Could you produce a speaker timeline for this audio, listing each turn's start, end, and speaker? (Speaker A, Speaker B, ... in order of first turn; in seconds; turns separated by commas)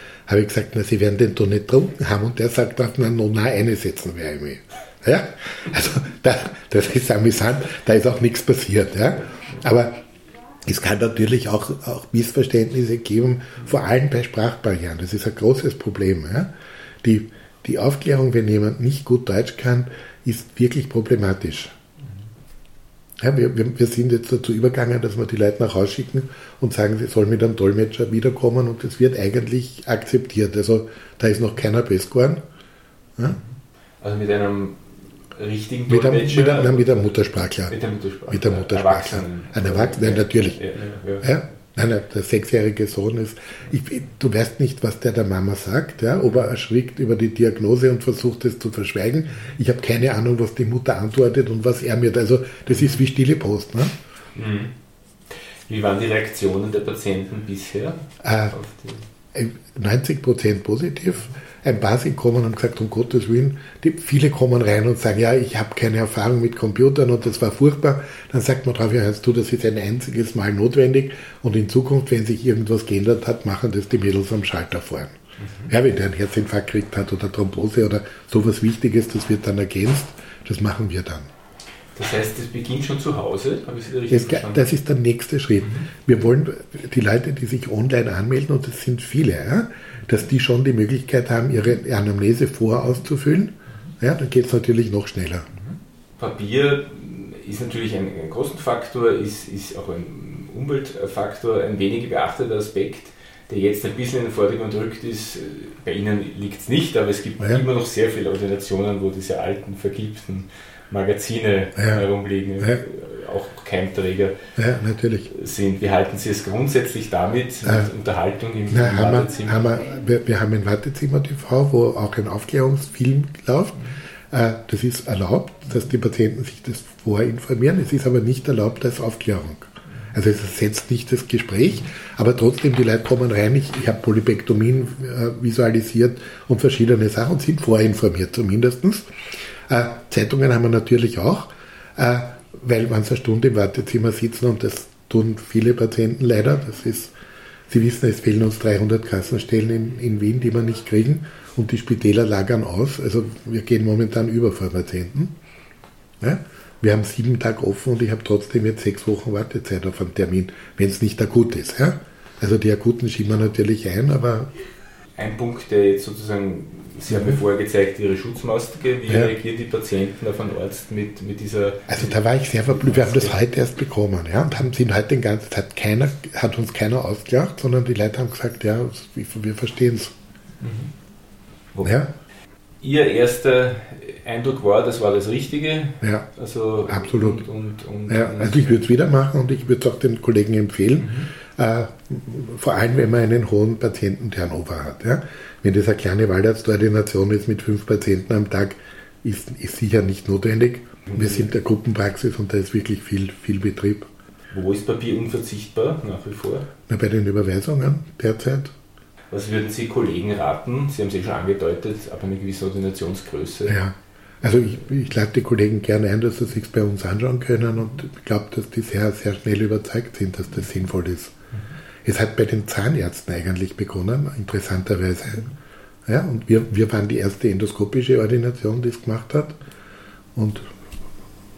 Speaker A: 0.3-10.0, Speaker A: 10.6-16.5, Speaker A: 17.0-21.7, Speaker A: 23.2-32.4, Speaker B: 34.0-41.4, Speaker A: 35.9-40.7, Speaker A: 41.2-53.9, Speaker B: 54.3-54.7, Speaker B: 55.7-59.0, Speaker A: 58.2-58.5, Speaker A: 59.3-75.1, Speaker B: 75.4-75.7, Speaker A: 75.7-81.3, Speaker B: 82.0-84.7, Speaker A: 84.1-95.5, Speaker B: 95.6-114.3, Speaker A: 111.8-112.1, Speaker A: 114.6-115.3, Speaker B: 115.3-119.8, Speaker A: 117.7-117.9, Speaker A: 118.7-139.1, Speaker A: 139.7-147.1, Speaker A: 147.7-155.3, Speaker A: 156.2-164.5, Speaker B: 165.2-173.4, Speaker A: 167.1-167.4, Speaker A: 169.1-169.3, Speaker A: 171.9-180.1, Speaker B: 180.6-180.9, Speaker A: 181.8-182.1, Speaker B: 182.8-188.9, Speaker A: 186.0-186.3, Speaker A: 186.9-187.4, Speaker A: 188.1-204.1, Speaker B: 191.0-191.3, Speaker B: 201.1-201.5, Speaker B: 204.5-206.7, Speaker A: 206.9-208.7, Speaker B: 209.3-213.8, Speaker A: 213.7-221.3, Speaker A: 222.1-225.5, Speaker A: 226.1-229.6, Speaker A: 230.3-230.6